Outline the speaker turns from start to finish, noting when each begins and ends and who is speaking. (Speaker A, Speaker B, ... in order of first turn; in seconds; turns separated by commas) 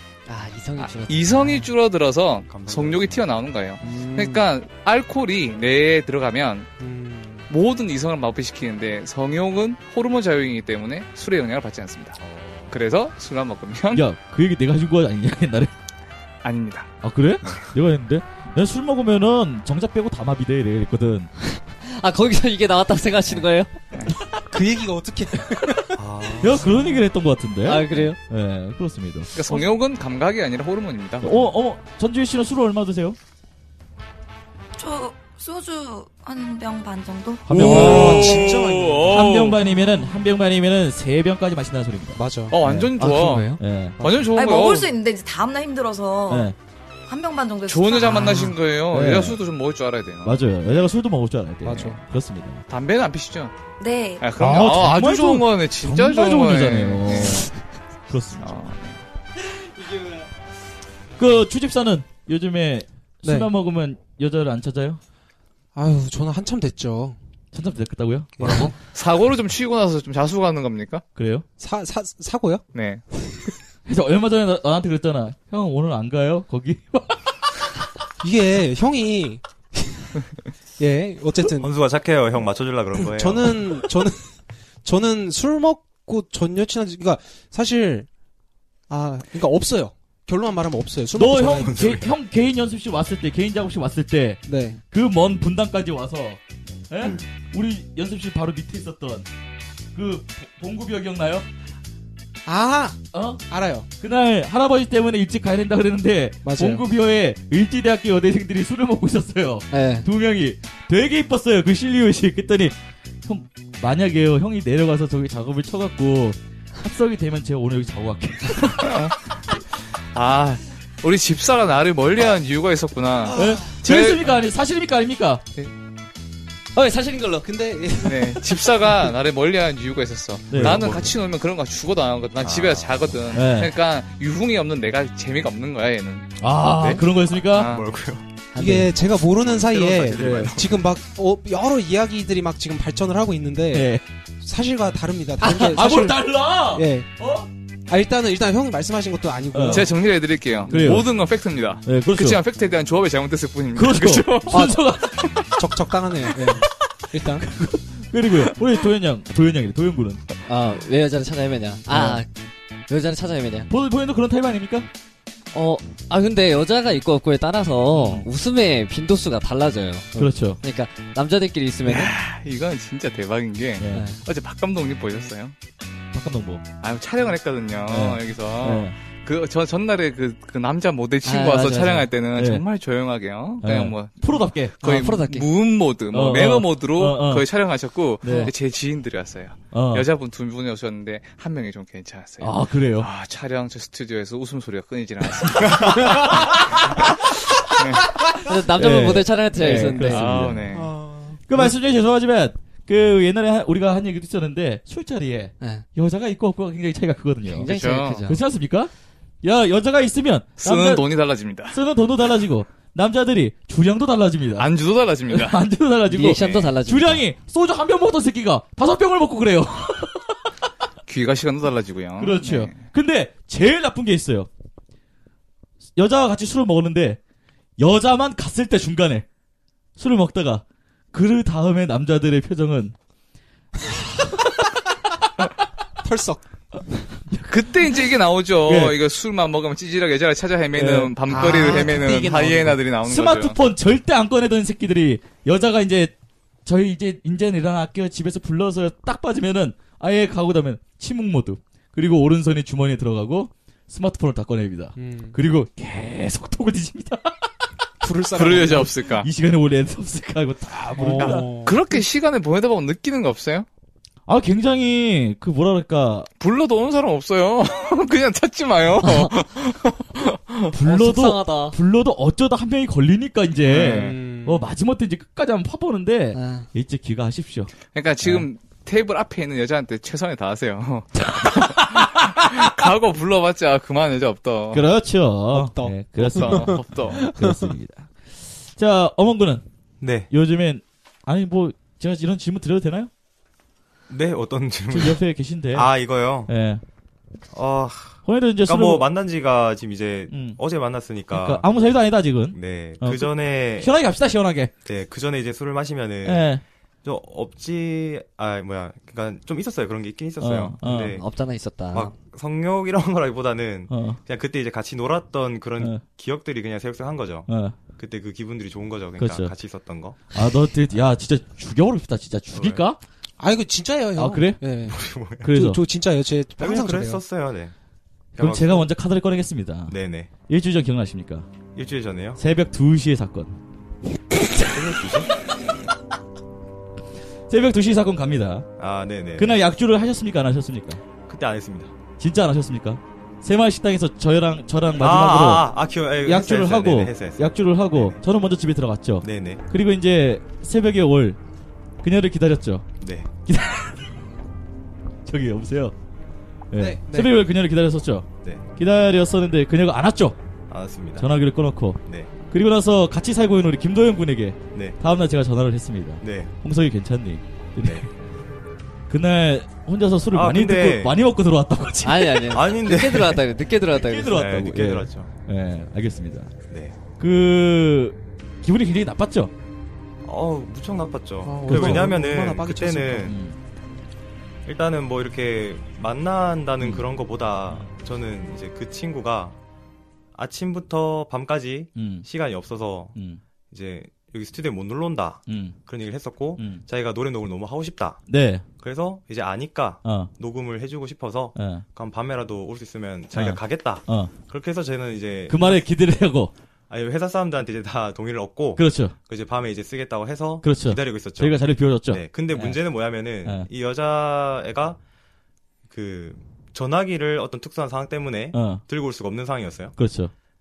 Speaker A: 0.2-1.7, Speaker B: 0.8-6.7, Speaker C: 2.5-3.3, Speaker A: 3.8-4.5, Speaker D: 6.8-7.5, Speaker B: 7.5-12.2, Speaker C: 12.2-12.8, Speaker B: 12.7-14.1, Speaker E: 13.9-15.7, Speaker B: 16.4-16.9, Speaker E: 17.0-21.3, Speaker A: 21.8-23.7, Speaker D: 24.3-26.0, Speaker C: 25.9-27.0, Speaker E: 26.4-29.6, Speaker A: 27.6-28.2, Speaker B: 29.3-31.4, Speaker E: 31.2-33.2, Speaker F: 34.8-37.6, Speaker E: 37.5-38.5, Speaker D: 37.5-39.2, Speaker B: 37.6-39.6, Speaker E: 39.1-44.0, Speaker D: 42.1-42.6, Speaker B: 42.5-44.9, Speaker A: 43.0-43.6, Speaker F: 44.3-46.5, Speaker E: 46.3-46.5, Speaker F: 47.1-48.3, Speaker B: 47.7-50.4, Speaker D: 48.2-48.5, Speaker E: 48.9-49.4, Speaker E: 50.2-52.6, Speaker D: 51.6-52.0, Speaker B: 51.7-52.0, Speaker B: 52.7-53.5, Speaker F: 53.8-54.2, Speaker B: 54.2-57.5, Speaker E: 54.4-57.5, Speaker E: 58.1-58.6, Speaker B: 58.4-59.0, Speaker E: 61.2-65.0, Speaker D: 63.2-63.5, Speaker D: 65.7-67.2, Speaker E: 67.5-68.7, Speaker D: 68.4-68.7, Speaker B: 68.9-71.0, Speaker E: 71.1-71.4, Speaker D: 71.6-72.6, Speaker B: 72.7-73.0, Speaker E: 73.9-77.6, Speaker D: 78.2-80.2, Speaker D: 80.8-81.7, Speaker C: 81.6-83.8, Speaker D: 83.0-84.3, Speaker D: 84.8-88.1, Speaker D: 88.9-91.7, Speaker E: 91.1-96.4, Speaker C: 91.6-92.2, Speaker D: 94.5-94.8, Speaker E: 96.9-99.3, Speaker E: 99.9-101.5, Speaker D: 102.5-103.8, Speaker E: 103.1-103.4, Speaker E: 104.0-119.1, Speaker D: 106.4-106.8, Speaker A: 109.7-110.1, Speaker B: 118.8-119.2, Speaker B: 120.1-124.3, Speaker E: 123.3-125.4, Speaker A: 126.7-127.6, Speaker D: 127.4-128.4, Speaker B: 128.0-136.3, Speaker E: 130.5-130.9, Speaker C: 130.6-131.1, Speaker C: 132.4-133.2, Speaker E: 133.3-133.8, Speaker E: 136.4-137.7, Speaker C: 136.8-138.4, Speaker B: 137.5-137.8, Speaker A: 138.5-138.9, Speaker D: 138.6-143.9, Speaker C: 139.3-140.8, Speaker E: 140.0-140.6, Speaker E: 143.7-144.0, Speaker D: 144.4-147.1, Speaker E: 145.4-147.5, Speaker D: 147.9-150.0, Speaker E: 149.5-149.9, Speaker B: 149.7-154.7, Speaker E: 150.7-151.1, Speaker E: 151.8-152.4, Speaker E: 153.7-155.6, Speaker D: 154.5-154.8, Speaker D: 155.6-157.5, Speaker E: 157.4-160.2, Speaker A: 160.4-162.3, Speaker E: 161.9-162.2, Speaker A: 162.9-163.7, Speaker E: 163.7-164.9, Speaker A: 165.5-172.1, Speaker E: 167.9-168.3, Speaker E: 170.1-170.6, Speaker B: 171.9-175.5, Speaker E: 173.8-174.1, Speaker A: 173.9-174.2, Speaker E: 176.1-176.6, Speaker B: 176.8-198.2, Speaker E: 177.9-178.9, Speaker A: 181.2-182.1, Speaker E: 182.3-182.6, Speaker E: 183.6-184.8, Speaker A: 184.8-185.5, Speaker E: 186.1-187.5, Speaker E: 188.2-188.5, Speaker E: 189.7-190.1, Speaker E: 192.4-193.1, Speaker E: 195.6-196.5, Speaker A: 198.4-200.3, Speaker E: 198.5-200.7, Speaker B: 199.9-200.9, Speaker D: 200.7-201.7, Speaker E: 201.5-207.7, Speaker A: 205.6-205.8, Speaker A: 207.4-208.4, Speaker B: 207.6-208.2, Speaker E: 208.2-208.9, Speaker E: 209.4-211.1, Speaker B: 210.6-211.8, Speaker E: 211.7-214.7, Speaker B: 214.5-215.6, Speaker E: 215.3-220.5, Speaker A: 216.1-217.3, Speaker B: 216.2-216.7, Speaker B: 221.1-222.8, Speaker E: 222.2-224.5, Speaker E: 225.9-227.2, Speaker E: 227.8-229.2, Speaker E: 230.0-232.9, Speaker D: 236.0-236.4, Speaker B: 237.4-243.6, Speaker E: 238.6-239.0, Speaker E: 240.7-241.2, Speaker D: 241.2-242.8, Speaker E: 243.0-246.1, Speaker E: 246.7-257.5, Speaker D: 255.0-255.3, Speaker D: 258.0-258.9, Speaker B: 258.3-259.3, Speaker E: 258.4-261.5, Speaker D: 260.9-261.9, Speaker B: 261.0-263.6, Speaker E: 264.3-266.3, Speaker B: 266.4-270.7, Speaker A: 269.0-269.3, Speaker E: 270.7-278.5, Speaker A: 270.8-271.8, Speaker B: 273.6-274.2, Speaker D: 273.9-274.7, Speaker A: 276.3-276.7, Speaker B: 277.9-284.9, Speaker E: 281.4-282.2, Speaker E: 284.7-288.1, Speaker D: 285.5-287.7, Speaker B: 286.1-287.2, Speaker E: 288.7-289.6, Speaker C: 290.0-290.3, Speaker E: 290.2-293.1, Speaker C: 294.1-295.2, Speaker E: 294.9-295.9, Speaker C: 295.7-296.5, Speaker E: 296.4-296.8, Speaker C: 297.5-301.7, Speaker E: 298.2-299.1, Speaker E: 300.3-300.6, Speaker E: 301.3-304.7, Speaker C: 302.5-303.9, Speaker C: 304.8-311.2, Speaker E: 306.2-306.6, Speaker E: 310.4-311.2, Speaker A: 311.1-312.1, Speaker C: 311.9-320.2, Speaker E: 313.9-314.2, Speaker E: 317.5-317.8, Speaker E: 319.2-319.5, Speaker E: 320.3-323.0, Speaker C: 322.5-322.9, Speaker D: 323.4-327.2, Speaker E: 324.2-324.6, Speaker C: 324.9-325.6, Speaker E: 325.4-325.8, Speaker C: 326.6-327.7, Speaker E: 328.3-331.5, Speaker C: 328.4-328.9, Speaker C: 329.9-330.3, Speaker C: 331.7-332.4, Speaker E: 332.4-333.5, Speaker C: 334.6-335.3, Speaker E: 337.5-338.7, Speaker C: 338.8-339.6, Speaker E: 339.4-341.0, Speaker C: 341.3-341.9, Speaker E: 342.2-345.7, Speaker C: 345.0-348.2, Speaker E: 346.2-351.4, Speaker C: 349.2-349.6, Speaker E: 352.0-352.9, Speaker C: 353.0-353.3, Speaker E: 353.5-354.0, Speaker E: 355.2-355.9, Speaker E: 356.7-360.4, Speaker D: 356.8-357.3, Speaker C: 360.7-361.3, Speaker E: 361.2-368.1, Speaker C: 362.0-362.3, Speaker C: 364.7-365.0, Speaker C: 366.2-366.5, Speaker C: 367.8-368.1, Speaker E: 369.1-372.6, Speaker C: 370.3-371.2, Speaker A: 372.0-374.6, Speaker C: 372.5-373.4, Speaker E: 373.9-376.5, Speaker C: 374.3-375.3, Speaker C: 376.7-377.0, Speaker E: 377.2-379.5, Speaker C: 380.2-383.4, Speaker D: 381.4-383.3, Speaker E: 381.7-382.1, Speaker E: 383.2-383.6, Speaker C: 384.6-389.6, Speaker E: 386.8-387.1, Speaker C: 390.3-393.2, Speaker E: 391.9-392.3, Speaker E: 393.1-393.4, Speaker C: 393.7-398.2, Speaker E: 395.5-395.8, Speaker E: 396.6-396.8, Speaker E: 398.3-398.6, Speaker C: 398.8-405.8, Speaker E: 400.0-400.3, Speaker E: 401.5-401.8, Speaker E: 403.3-404.3, Speaker E: 405.5-406.5, Speaker C: 406.9-415.0, Speaker E: 408.8-409.1, Speaker E: 410.6-413.7, Speaker C: 415.9-419.9, Speaker E: 418.5-418.9, Speaker E: 419.9-420.3